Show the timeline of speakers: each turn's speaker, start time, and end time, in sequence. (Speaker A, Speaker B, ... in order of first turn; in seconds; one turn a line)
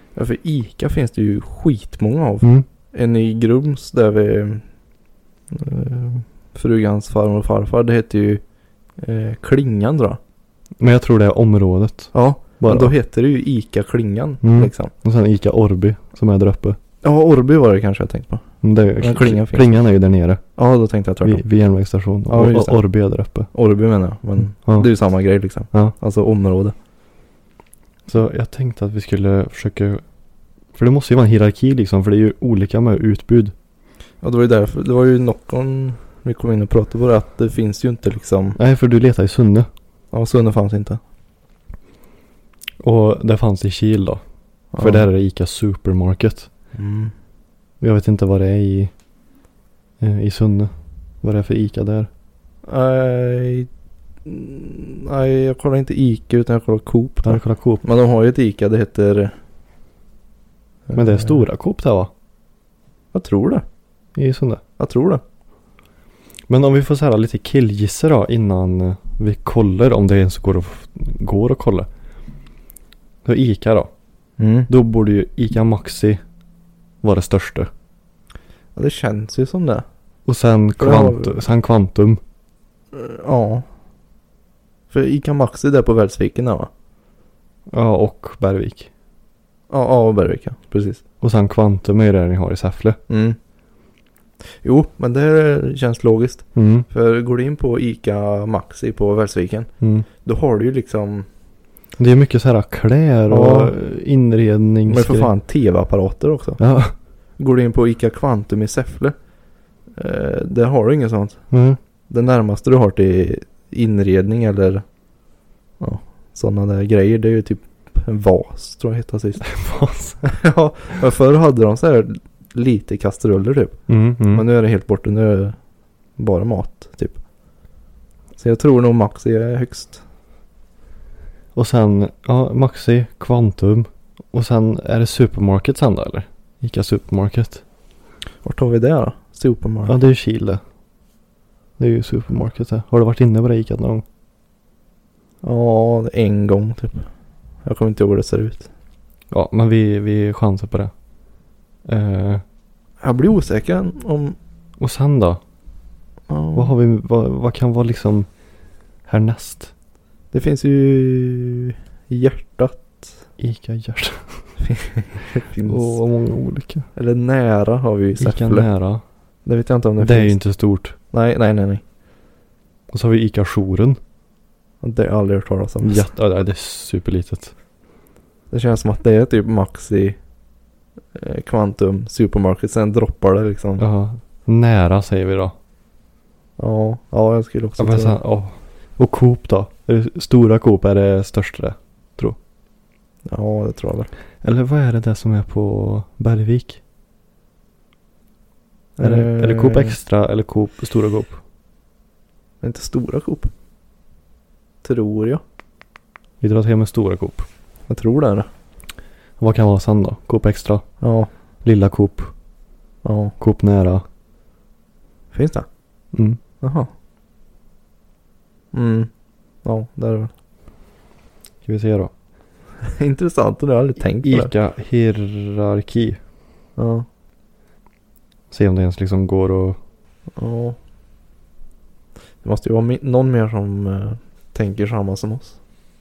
Speaker A: 0.2-4.7
Speaker A: 5.5-8.4
Speaker A: 9.0-10.2
Speaker B: 10.8-12.9
Speaker A: 12.1-14.9
Speaker B: 14.4-16.8
Speaker A: 17.0-18.4
Speaker B: 18.6-20.4
Speaker A: 19.0-19.7
Speaker A: 20.6-21.4
Speaker B: 21.2-23.5
Speaker A: 22.3-22.8
Speaker A: 23.5-26.8
Speaker B: 28.1-30.0
Speaker B: 30.8-33.5
Speaker A: 34.2-38.6
Speaker B: 38.6-39.7
Speaker A: 40.1-41.0
Speaker B: 42.8-44.2
Speaker A: 44.7-45.1
Speaker B: 44.8-46.5
Speaker A: 46.7-47.1
Speaker B: 47.8-48.9
Speaker B: 50.0-52.1
Speaker A: 52.7-53.7
Speaker A: 54.3-59.4
Speaker B: 57.2-57.8
Speaker A: 60.9-61.4
Speaker B: 60.9-62.1
Speaker A: 63.1-63.6
Speaker B: 64.2-64.6
Speaker A: 64.8-65.2
Speaker B: 66.5-71.9
Speaker B: 73.2-73.9
Speaker A: 74.4-74.7
Speaker B: 74.7-76.2
Speaker B: 77.0-77.7
Speaker A: 78.8-79.8
Speaker B: 80.3-82.2
Speaker A: 80.8-81.4
Speaker A: 82.9-83.7
Speaker A: 84.9-86.7
Speaker B: 87.7-88.9
Speaker A: 89.7-91.0
Speaker B: 91.2-93.0
Speaker A: 93.1-93.4
Speaker A: 94.6-101.3
Speaker B: 96.5-96.9
Speaker B: 99.8-100.1
Speaker B: 102.0-105.3
Speaker A: 103.3-103.8
Speaker A: 104.9-106.6
Speaker B: 106.6-106.9
Speaker A: 107.4-109.2
Speaker A: 110.0-111.4
Speaker B: 111.5-111.8
Speaker A: 112.1-114.8
Speaker A: 115.8-119.5
Speaker B: 119.4-120.2
Speaker A: 120.2-125.6
Speaker B: 123.9-124.5
Speaker A: 126.2-127.2
Speaker A: 128.4-130.0
Speaker B: 131.6-137.6
Speaker A: 138.4-140.0
Speaker B: 139.9-140.6
Speaker B: 141.8-144.0
Speaker A: 145.4-147.1
Speaker A: 147.6-148.7
Speaker B: 149.3-150.9
Speaker B: 151.9-152.4
Speaker A: 153.0-154.4
Speaker B: 154.8-155.4
Speaker A: 156.3-156.7
Speaker B: 156.6-158.3
Speaker B: 159.1-159.7
Speaker A: 160.3-163.1
Speaker B: 163.4-164.4
Speaker A: 164.6-166.0
Speaker B: 165.7-166.9
Speaker A: 166.9-168.7
Speaker B: 168.2-169.0
Speaker A: 169.5-170.4
Speaker B: 170.0-171.0
Speaker A: 171.1-171.8
Speaker B: 172.9-174.0
Speaker A: 174.8-176.1
Speaker B: 175.8-177.5
Speaker A: 178.5-180.2
Speaker A: 181.2-183.8
Speaker B: 183.8-185.6
Speaker A: 186.6-188.2
Speaker B: 187.8-192.4
Speaker A: 193.3-194.1
Speaker B: 194.4-196.8
Speaker A: 199.0-200.0
Speaker B: 199.0-201.4
Speaker A: 202.6-203.5
Speaker A: 204.8-205.4
Speaker B: 206.4-207.5
Speaker A: 207.9-208.5
Speaker B: 209.4-211.0
Speaker A: 211.0-211.3
Speaker B: 211.6-212.3
Speaker A: 213.0-213.3
Speaker B: 213.4-214.0
Speaker A: 215.3-215.7
Speaker B: 216.1-216.4
Speaker A: 216.6-216.9
Speaker A: 218.7-219.1
Speaker A: 219.6-220.3
Speaker B: 221.7-222.1
Speaker A: 222.8-224.5
Speaker B: 224.2-226.2
Speaker A: 226.8-227.1
Speaker B: 228.5-229.8
Speaker A: 230.4-230.8
Speaker A: 232.4-235.6